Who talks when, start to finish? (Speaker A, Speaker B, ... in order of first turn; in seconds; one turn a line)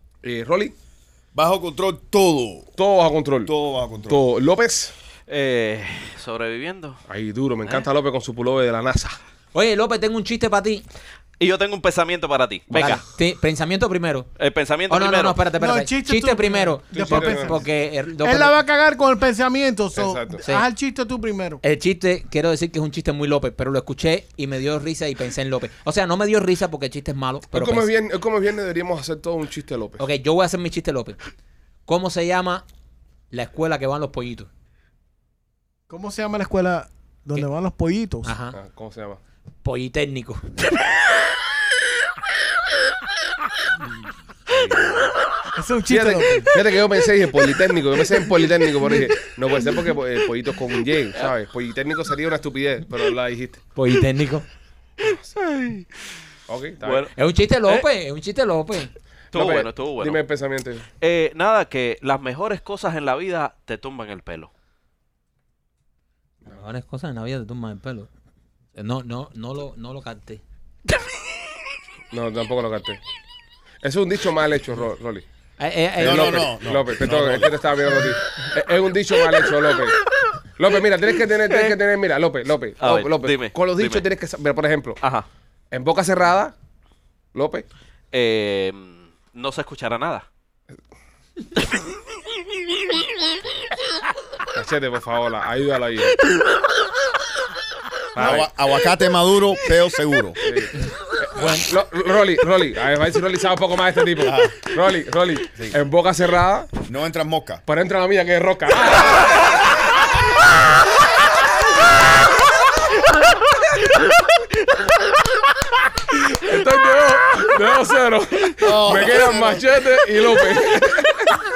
Speaker A: 0.2-0.7
Speaker B: 1.3-2.7
Speaker A: 2.8-3.5
Speaker B: 3.4-4.2
Speaker A: 4.1-4.9
Speaker C: 5.3-7.0
Speaker A: 7.1-9.2
Speaker D: 9.5-10.8
Speaker C: 11.4-13.0
Speaker A: 12.7-13.0
Speaker D: 12.7-14.3
Speaker C: 14.4-15.4
Speaker D: 14.9-18.5
Speaker E: 15.6-17.6
Speaker A: 16.9-17.6
Speaker E: 18.2-21.6
Speaker A: 19.9-20.4
Speaker D: 21.6-27.9
Speaker A: 27.5-30.0
Speaker D: 30.0-31.2
Speaker D: 31.9-32.6
Speaker D: 33.3-34.5
Speaker E: 35.9-38.3
Speaker D: 38.2-38.5
Speaker A: 38.5-39.2
Speaker D: 39.6-40.5
Speaker A: 44.5-45.1
Speaker E: 45.5-46.5
Speaker A: 45.9-53.6
Speaker D: 53.8-54.5
Speaker A: 55.0-55.3
Speaker C: 55.4-55.9
Speaker A: 56.5-57.0
Speaker C: 56.8-57.1
Speaker D: 57.1-58.9
Speaker C: 59.3-60.2
Speaker A: 59.3-60.9
Speaker C: 61.0-64.5
Speaker D: 66.5-68.1
Speaker D: 68.8-70.4
Speaker A: 72.1-73.0
Speaker A: 73.8-75.2
Speaker D: 75.6-76.4
Speaker B: 76.0-77.5
Speaker A: 76.0-80.0
Speaker A: 80.6-85.0
Speaker C: 82.8-84.0
Speaker C: 85.0-85.2
Speaker A: 85.7-86.5
Speaker A: 87.3-87.6
Speaker C: 88.1-90.2
Speaker A: 94.5-96.2
Speaker A: 98.1-98.5
Speaker B: 98.2-100.4
Speaker A: 100.4-106.7
Speaker B: 104.2-104.5
Speaker B: 106.8-107.6
Speaker A: 107.7-109.8
Speaker A: 116.1-121.3
Speaker B: 118.6-119.7